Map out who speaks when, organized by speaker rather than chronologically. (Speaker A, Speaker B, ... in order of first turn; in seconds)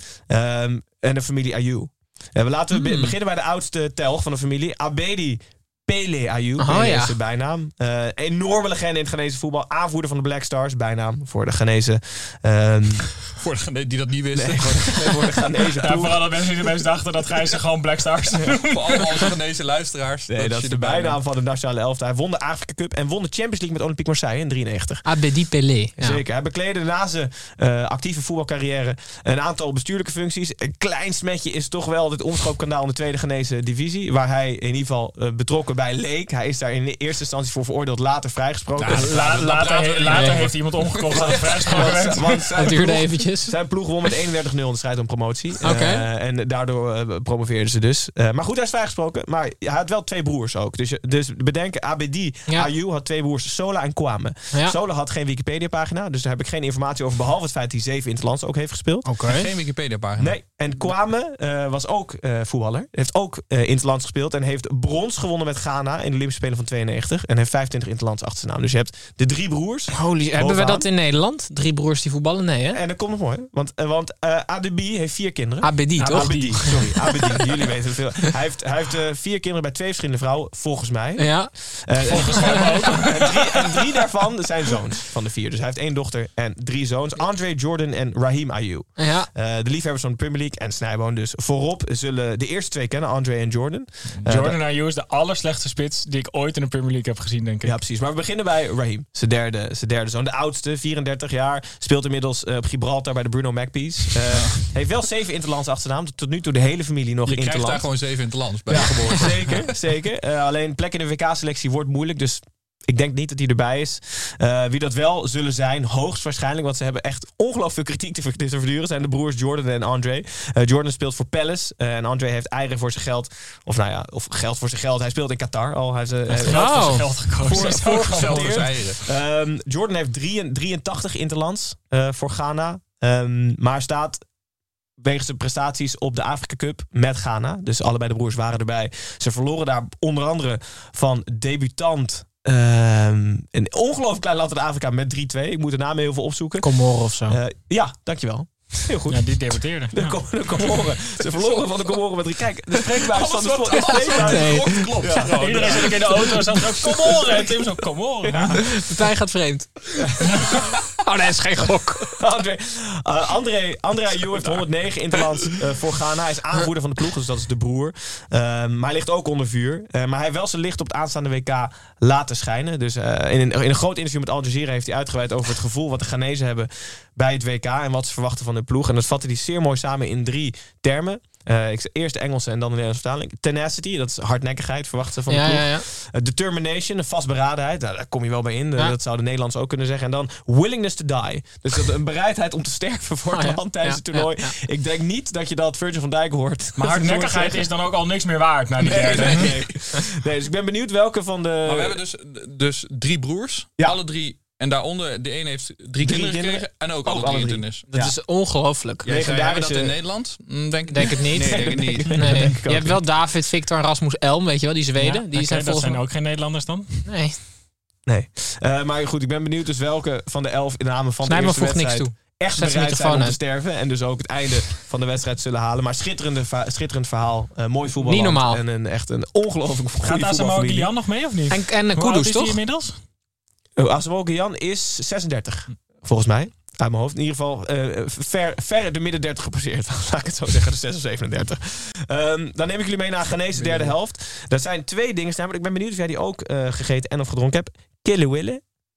Speaker A: 0.3-13.2, 14.3-16.2, 20.3-25.0, 26.0-40.4, 41.1-59.1, 60.2-70.9, 72.7-94.6, 97.6-107.9, 108.7-134.2, 135.0-146.7, 147.3-157.6, 158.2-159.1, 159.9-160.8, 161.6-197.7, 198.8-202.0, 206.0-208.1, 209.1-209.9, 211.1-213.0, 218.1-230.9, 233.8-248.6
Speaker B: 2.7-3.1, 6.6-7.2, 25.0-26.2, 38.8-39.1, 40.1-40.5, 41.6-42.0, 42.5-43.5, 45.6-46.0, 59.0-59.5, 69.9-72.8, 75.6-77.4, 81.2-82.6, 89.0-89.3, 126.5-127.6, 146.6-147.4, 153.8-155.3, 158.5-159.9, 160.5-162.2, 185.3-185.8, 193.3-194.6, 207.9-209.2, 210.9-216.0, 217.1-217.4, 221.2-223.4, 228.0-228.6, 231.5-232.6
Speaker C: 13.3-15.1, 18.5-21.2, 38.9-41.4, 59.2-60.4, 104.3-104.7, 107.2-109.6, 128.1-129.0, 152.8-156.1, 199.1-199.5, 201.6-207.9, 209.0-212.6, 243.5-243.9
Speaker D: 15.8-19.1, 38.9-42.6, 76.0-76.9, 82.1-83.8, 94.2-97.8, 126.3-128.7, 149.1-150.2, 155.3-158.6, 160.2-160.6, 196.8-199.5, 215.0-217.0, 230.0-233.0